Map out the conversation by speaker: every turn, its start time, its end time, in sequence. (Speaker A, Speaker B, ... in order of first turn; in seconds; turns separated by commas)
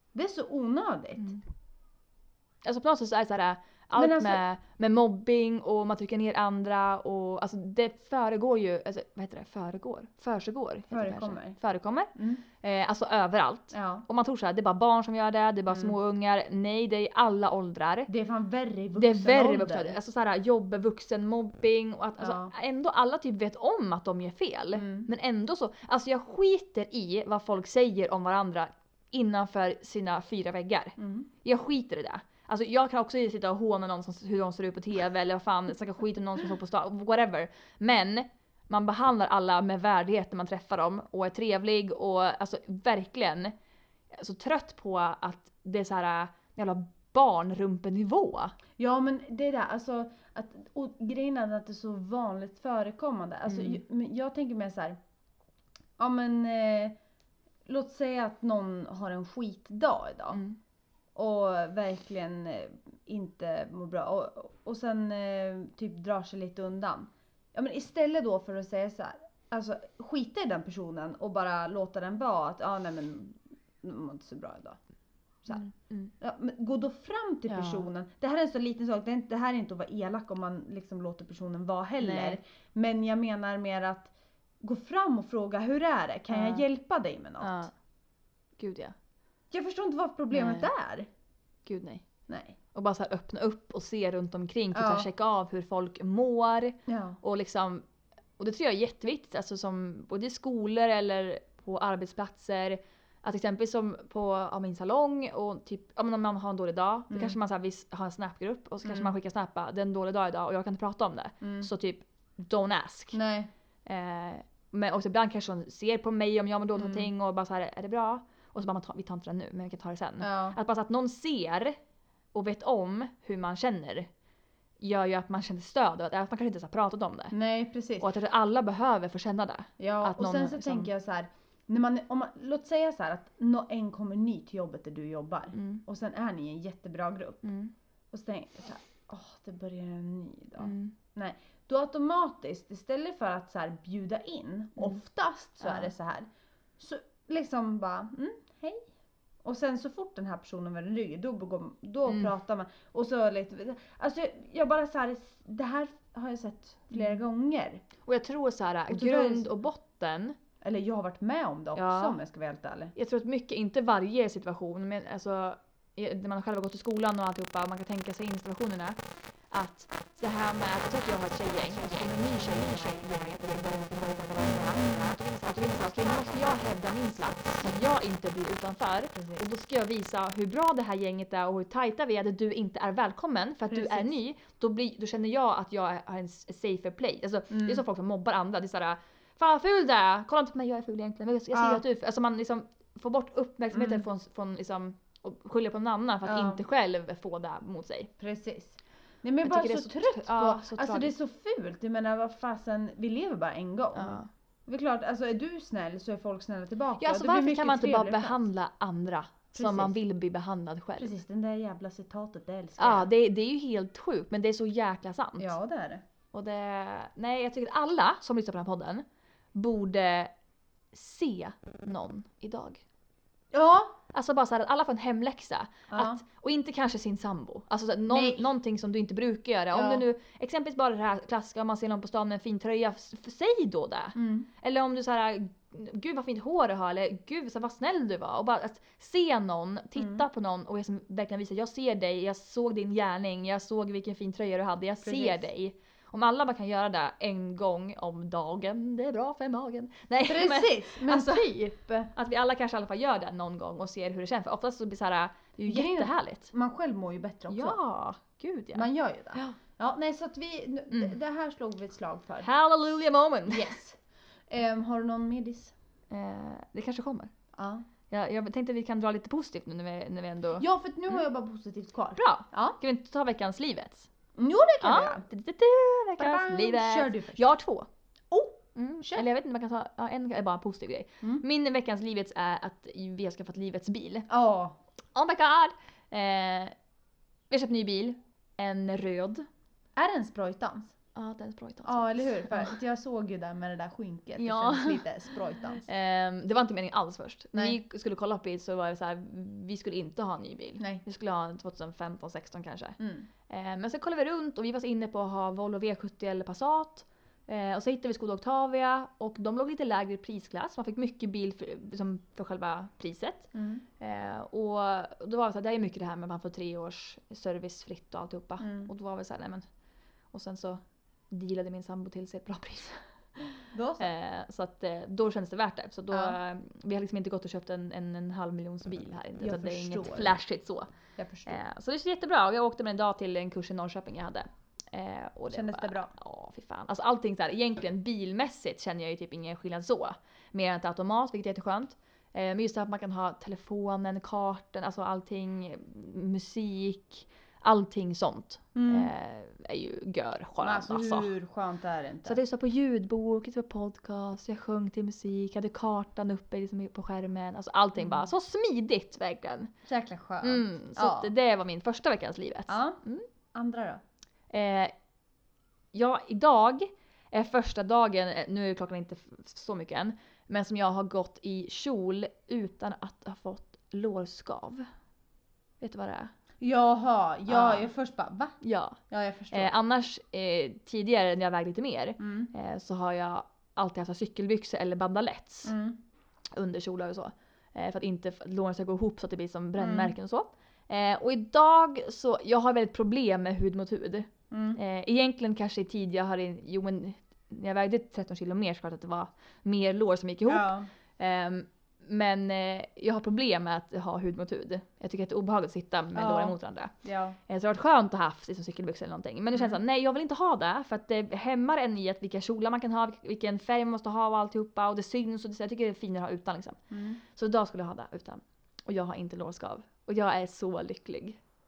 Speaker A: 0.1-1.4, Speaker B: 2.6-18.1, Speaker A: 4.0-4.4, Speaker A: 10.9-11.6, Speaker A: 12.2-12.4, Speaker A: 13.7-14.1, Speaker A: 15.7-16.0, Speaker A: 18.1-20.0, Speaker B: 19.0-43.5, Speaker A: 22.2-22.5, Speaker A: 24.8-25.1, Speaker A: 31.0-31.3, Speaker B: 44.1-48.5, Speaker A: 48.8-55.0, Speaker B: 53.5-53.8, Speaker A: 56.0-57.0, Speaker A: 57.7-60.4, Speaker B: 60.3-60.6, Speaker A: 61.1-74.8, Speaker A: 75.4-87.7, Speaker B: 75.5-76.1, Speaker B: 77.5-77.9, Speaker B: 82.0-82.4, Speaker B: 86.3-86.7, Speaker B: 87.4-87.7, Speaker B: 88.6-88.9, Speaker A: 89.5-91.1, Speaker B: 90.3-90.7, Speaker B: 91.7-92.0, Speaker A: 92.3-92.6, Speaker B: 92.7-97.8, Speaker A: 94.7-95.1, Speaker A: 96.9-97.2, Speaker B: 98.4-113.2, Speaker A: 107.1-107.4, Speaker A: 108.8-109.1, Speaker A: 111.4-111.7, Speaker A: 113.1-113.5, Speaker B: 113.8-121.8, Speaker A: 116.8-117.1, Speaker A: 120.2-120.6, Speaker B: 122.3-124.1, Speaker B: 124.8-127.3, Speaker A: 127.3-128.1, Speaker B: 128.0-130.9, Speaker A: 129.8-137.4, Speaker B: 135.5-135.8, Speaker B: 137.4-137.7, Speaker A: 138.1-146.3, Speaker B: 140.6-140.9, Speaker B: 145.6-145.9, Speaker A: 146.8-148.9, Speaker A: 149.4-157.8, Speaker B: 152.1-152.3, Speaker B: 156.9-157.2, Speaker B: 158.0-160.4, Speaker A: 158.9-159.5, Speaker A: 160.6-162.9, Speaker B: 161.8-162.2, Speaker B: 162.9-169.0, Speaker B: 169.5-198.1, Speaker A: 179.2-179.4, Speaker A: 183.7-184.2, Speaker A: 187.5-187.8, Speaker A: 191.5-191.8, Speaker A: 193.7-194.1, Speaker A: 196.2-196.6, Speaker A: 198.2-208.4, Speaker B: 199.4-201.1, Speaker B: 203.9-204.3, Speaker B: 207.0-211.1, Speaker A: 209.5-209.9, Speaker A: 211.0-213.1, Speaker B: 212.8-215.5, Speaker A: 215.4-216.0, Speaker B: 216.3-220.3, Speaker B: 220.9-222.8, Speaker A: 223.5-224.0, Speaker B: 224.1-256.5, Speaker A: 225.9-226.2, Speaker A: 228.1-228.5, Speaker A: 229.7-230.0, Speaker A: 234.2-234.5, Speaker A: 240.0-240.2, Speaker A: 245.0-245.4, Speaker A: 250.2-252.1, Speaker A: 255.7-257.8, Speaker B: 257.5-259.6, Speaker A: 258.8-262.5, Speaker B: 260.9-261.2, Speaker B: 262.4-263.8, Speaker A: 263.5-265.7, Speaker B: 266.1-267.3, Speaker A: 267.5-267.8, Speaker B: 268.1-271.2, Speaker A: 270.6-272.8, Speaker B: 272.2-274.1, Speaker A: 274.4-275.2, Speaker B: 274.8-277.9, Speaker A: 276.2-277.4, Speaker A: 278.3-279.3, Speaker B: 278.8-284.3, Speaker A: 284.3-284.8, Speaker B: 285.1-286.7, Speaker B: 287.5-289.4, Speaker A: 289.9-290.9, Speaker B: 291.1-292.8, Speaker A: 291.8-295.9, Speaker B: 294.4-295.1, Speaker B: 295.8-319.6, Speaker A: 303.0-303.3, Speaker A: 313.5-313.8, Speaker A: 318.6-318.9, Speaker B: 320.3-330.9, Speaker A: 323.7-324.1, Speaker A: 326.1-326.4, Speaker A: 329.4-330.4, Speaker A: 331.2-331.6, Speaker B: 331.4-351.3, Speaker A: 335.5-336.1, Speaker A: 348.8-349.1, Speaker A: 350.6-352.4, Speaker B: 352.3-359.7, Speaker A: 358.0-358.3, Speaker A: 359.9-361.3, Speaker B: 360.4-363.3, Speaker A: 362.7-363.0, Speaker A: 363.5-364.0, Speaker B: 364.5-364.9, Speaker B: 365.9-374.9, Speaker B: 375.8-376.3, Speaker A: 376.6-378.6, Speaker B: 377.5-377.9, Speaker B: 378.6-379.0, Speaker A: 379.1-379.7, Speaker B: 379.5-385.7, Speaker A: 382.2-382.5, Speaker A: 385.6-386.0, Speaker B: 386.5-406.9, Speaker A: 389.8-390.1, Speaker A: 394.5-394.8, Speaker A: 400.5-400.9, Speaker A: 406.1-407.4, Speaker B: 407.5-421.4, Speaker A: 416.9-417.2